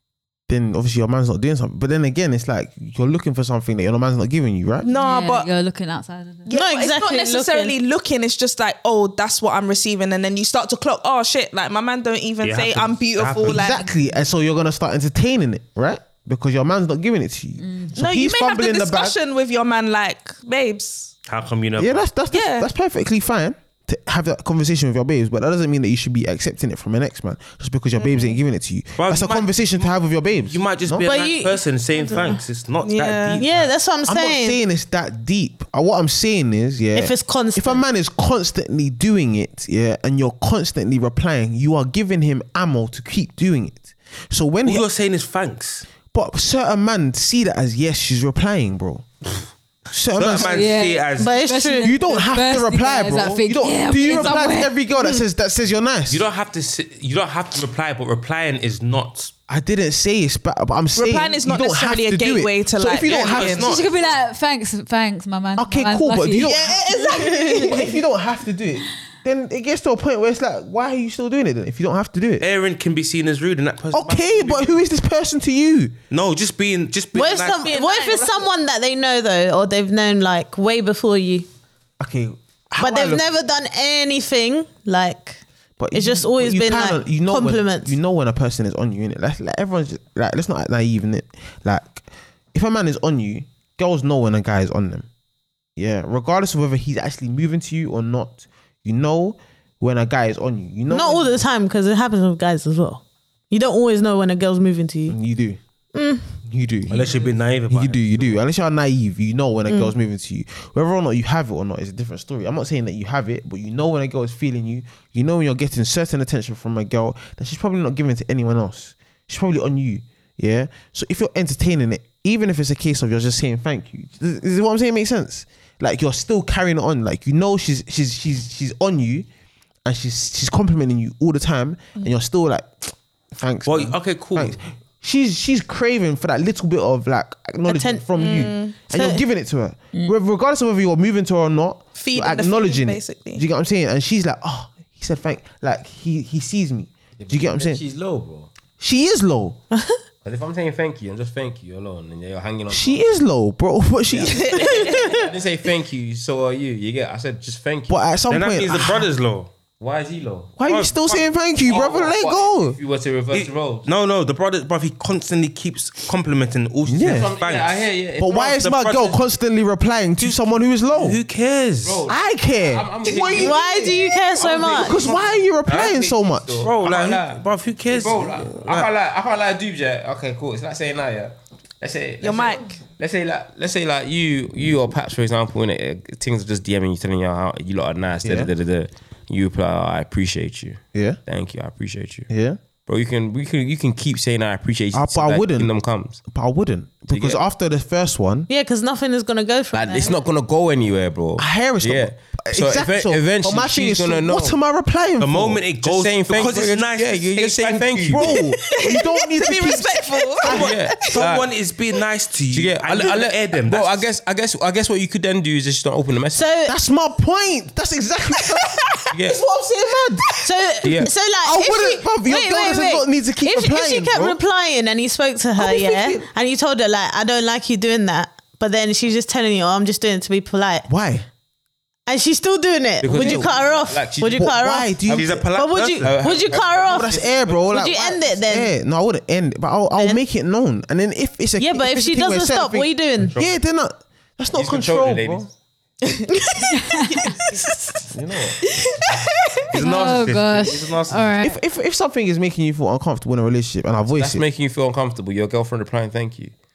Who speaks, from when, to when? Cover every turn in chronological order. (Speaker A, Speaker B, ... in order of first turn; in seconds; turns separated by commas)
Speaker A: 0.5-4.9, Speaker B: 4.8-5.5, Speaker C: 4.9-6.5, Speaker B: 6.5-13.9, Speaker D: 6.5-7.8, Speaker E: 12.4-13.7, Speaker A: 13.4-19.1, Speaker C: 17.6-17.9, Speaker B: 17.9-21.1, Speaker E: 21.2-22.0, Speaker A: 21.8-31.1, Speaker B: 22.3-22.7, Speaker E: 29.0-33.7, Speaker D: 31.0-32.4, Speaker B: 32.8-33.4, Speaker D: 33.4-34.6, Speaker A: 34.1-44.8, Speaker D: 36.9-37.8, Speaker E: 44.6-45.9, Speaker A: 46.1-49.0, Speaker A: 49.9-50.6, Speaker E: 50.1-51.3, Speaker C: 50.4-54.7, Speaker D: 51.2-51.9, Speaker A: 51.8-56.2, Speaker E: 56.1-59.3, Speaker A: 59.5-63.6, Speaker B: 61.0-63.8, Speaker E: 63.0-64.0, Speaker C: 63.6-66.8, Speaker A: 65.6-72.4, Speaker D: 66.9-67.9, Speaker E: 72.4-74.8, Speaker A: 73.9-76.0, Speaker E: 76.1-77.7, Speaker D: 77.1-81.5, Speaker B: 77.5-78.5, Speaker A: 82.0-83.3, Speaker D: 82.8-85.4, Speaker A: 85.8-95.1, Speaker D: 85.9-87.9, Speaker A: 95.8-101.4, Speaker D: 100.9-105.2, Speaker A: 105.1-105.6, Speaker D: 105.9-106.3, Speaker A: 106.4-129.3, Speaker E: 106.9-108.4, Speaker A: 129.8-147.8, Speaker E: 133.7-134.6, Speaker D: 137.7-139.2, Speaker B: 138.2-138.8, Speaker B: 142.0-143.4, Speaker F: 147.2-148.5, Speaker A: 148.8-149.6, Speaker F: 150.2-153.0, Speaker A: 152.7-155.0, Speaker F: 154.1-158.0, Speaker B: 154.2-155.2, Speaker D: 154.8-155.0, Speaker A: 157.9-159.1, Speaker E: 158.3-159.5, Speaker F: 159.8-160.6, Speaker A: 160.6-162.8, Speaker E: 160.7-161.3, Speaker F: 161.6-163.8, Speaker E: 163.3-169.2, Speaker A: 166.8-167.3, Speaker F: 167.0-168.5, Speaker A: 168.2-171.2, Speaker E: 170.2-172.0, Speaker F: 171.8-173.6, Speaker A: 172.1-176.7, Speaker D: 173.3-175.1, Speaker F: 174.3-192.3, Speaker E: 176.6-178.9, Speaker B: 182.2-182.8, Speaker A: 188.2-188.5, Speaker A: 190.9-191.2, Speaker A: 192.3-192.6, Speaker F: 192.8-196.2, Speaker A: 194.9-198.5, Speaker F: 197.1-197.4, Speaker D: 198.5-200.2, Speaker F: 199.7-204.5, Speaker A: 201.4-205.6, Speaker E: 205.2-208.4, Speaker F: 205.8-208.4, Speaker A: 208.1-211.0, Speaker B: 208.6-211.1, Speaker E: 210.4-214.0, Speaker F: 210.5-211.5, Speaker F: 212.5-216.4, Speaker D: 216.3-216.7, Speaker A: 216.7-220.4, Speaker F: 219.1-219.4, Speaker D: 220.4-230.9, Speaker F: 220.8-221.1, Speaker A: 221.4-224.4, Speaker A: 225.6-226.3, Speaker A: 230.9-231.2, Speaker D: 232.1-238.7, Speaker F: 233.0-234.5, Speaker A: 233.1-233.5, Speaker A: 234.3-235.4, Speaker F: 235.1-235.4, Speaker E: 235.1-236.3, Speaker F: 236.0-237.7, Speaker A: 236.9-245.5, Speaker D: 241.6-243.3, Speaker E: 243.2-243.5, Speaker F: 244.5-245.5, Speaker D: 246.3-246.8, Speaker C: 246.8-247.3, Speaker A: 248.1-248.6, Speaker B: 248.9-249.2, Speaker E: 249.7-251.3, Speaker C: 249.7-251.6, Speaker A: 251.4-254.4, Speaker F: 254.2-256.5